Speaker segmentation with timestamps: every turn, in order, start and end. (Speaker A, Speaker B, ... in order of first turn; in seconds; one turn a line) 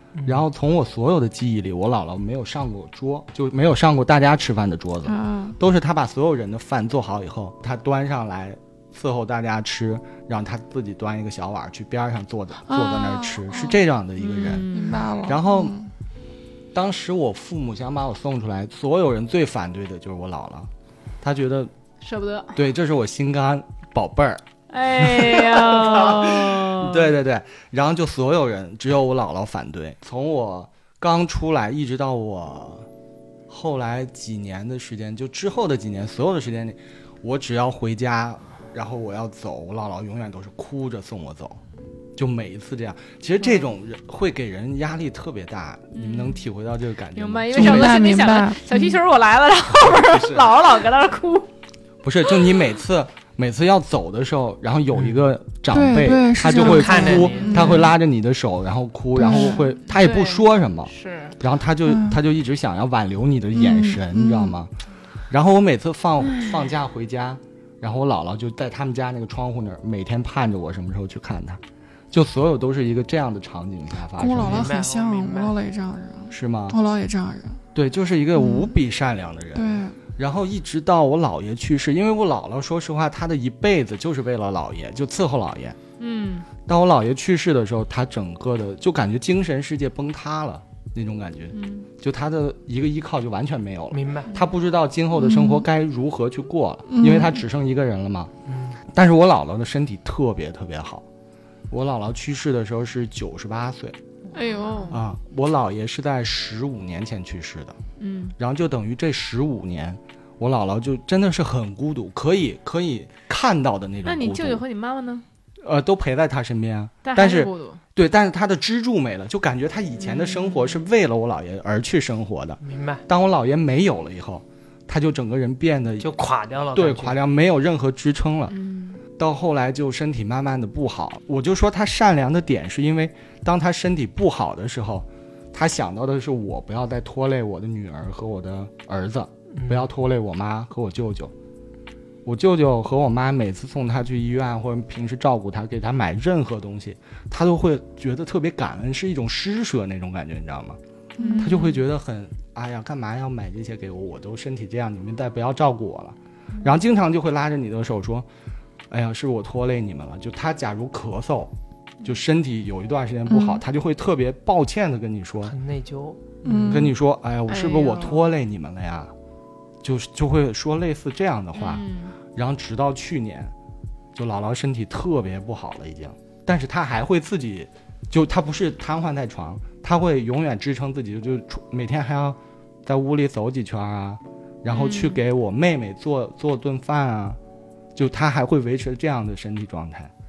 Speaker A: 0.2-0.4
Speaker B: 0.2-14.7
Speaker C: 5.0-5.6
Speaker C: 12.7-13.8
Speaker D: 14.2-15.1
Speaker C: 14.7-15.9
Speaker B: 15.3-15.8
Speaker B: 16.7-20.7
Speaker B: 21.2-21.7
Speaker D: 22.0-22.6
Speaker B: 22.6-32.9
Speaker D: 24.7-27.1
Speaker B: 33.5-41.6
Speaker B: 42.2-48.0
Speaker D: 45.9-46.4
Speaker D: 47.1-51.5
Speaker C: 47.5-49.0
Speaker B: 49.8-50.5
Speaker B: 52.0-64.7
Speaker C: 55.7-58.0
Speaker A: 56.6-57.6
Speaker D: 57.1-57.8
Speaker C: 59.2-59.7
Speaker D: 59.2-61.4
Speaker C: 61.9-62.2
Speaker C: 63.5-64.5
Speaker B: 65.3-74.7
Speaker C: 74.2-77.6
Speaker A: 74.4-75.6
Speaker B: 76.3-76.8
Speaker B: 77.8-85.8
Speaker C: 79.5-80.0
Speaker D: 86.0-86.5
Speaker B: 86.7-98.3
Speaker D: 91.5-91.9
Speaker A: 93.9-94.3
Speaker C: 95.2-95.6
Speaker C: 96.9-97.4
Speaker A: 98.5-98.8
Speaker B: 98.9-101.0
Speaker B: 101.7-104.0
Speaker D: 104.3-105.0
Speaker B: 104.9-107.8
Speaker D: 108.0-108.3
Speaker B: 108.4-114.6
Speaker D: 114.0-115.2
Speaker B: 115.6-126.1
Speaker D: 117.0-117.8
Speaker D: 120.0-120.7
Speaker A: 122.6-123.0
Speaker A: 126.0-127.2
Speaker B: 126.7-128.6
Speaker D: 128.5-129.0
Speaker B: 129.2-141.3
Speaker A: 139.6-139.8
Speaker B: 142.2-150.8
Speaker C: 151.2-151.7
Speaker D: 151.2-151.8
Speaker B: 151.4-158.3
Speaker B: 158.9-161.5
Speaker B: 162.0-165.6
Speaker A: 165.5-166.4
Speaker C: 166.4-166.9
Speaker B: 166.7-169.1
Speaker D: 167.5-168.3
Speaker B: 169.8-173.5
Speaker D: 171.6-172.2
Speaker B: 174.2-187.4
Speaker D: 184.7-185.2
Speaker B: 187.9-190.1